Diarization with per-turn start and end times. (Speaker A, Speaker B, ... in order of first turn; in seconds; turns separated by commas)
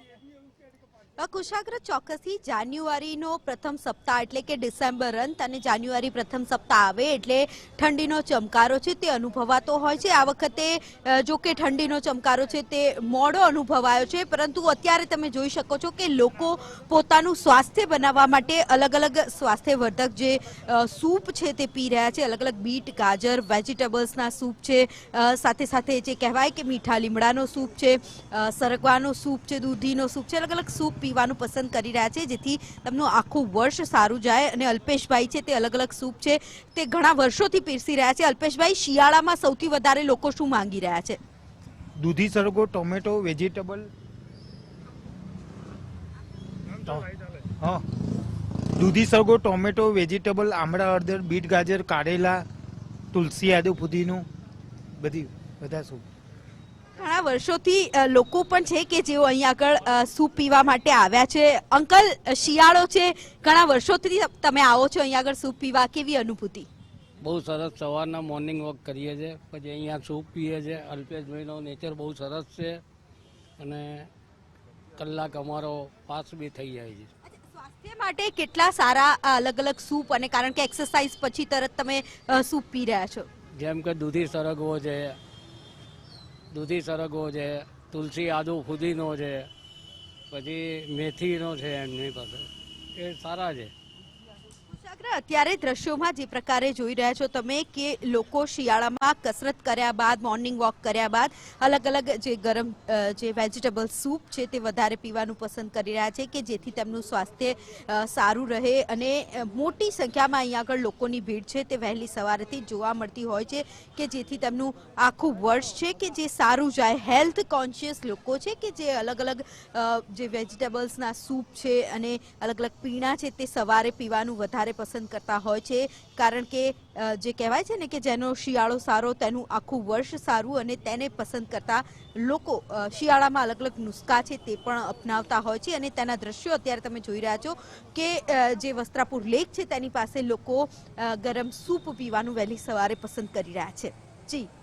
Speaker A: 1.2-41.2, Speaker B: 42.0-43.9, Speaker B: 46.8-47.1, Speaker B: 48.8-52.4, Speaker B: 53.1-54.2, Speaker B: 55.0-56.0, Speaker A: 56.9-66.7, Speaker C: 67.2-72.8, Speaker C: 73.6-74.1, Speaker C: 75.0-77.1, Speaker A: 77.3-83.3, Speaker C: 83.5-85.2, Speaker C: 86.5-89.5, Speaker C: 90.3-93.7, Speaker A: 94.7-144.5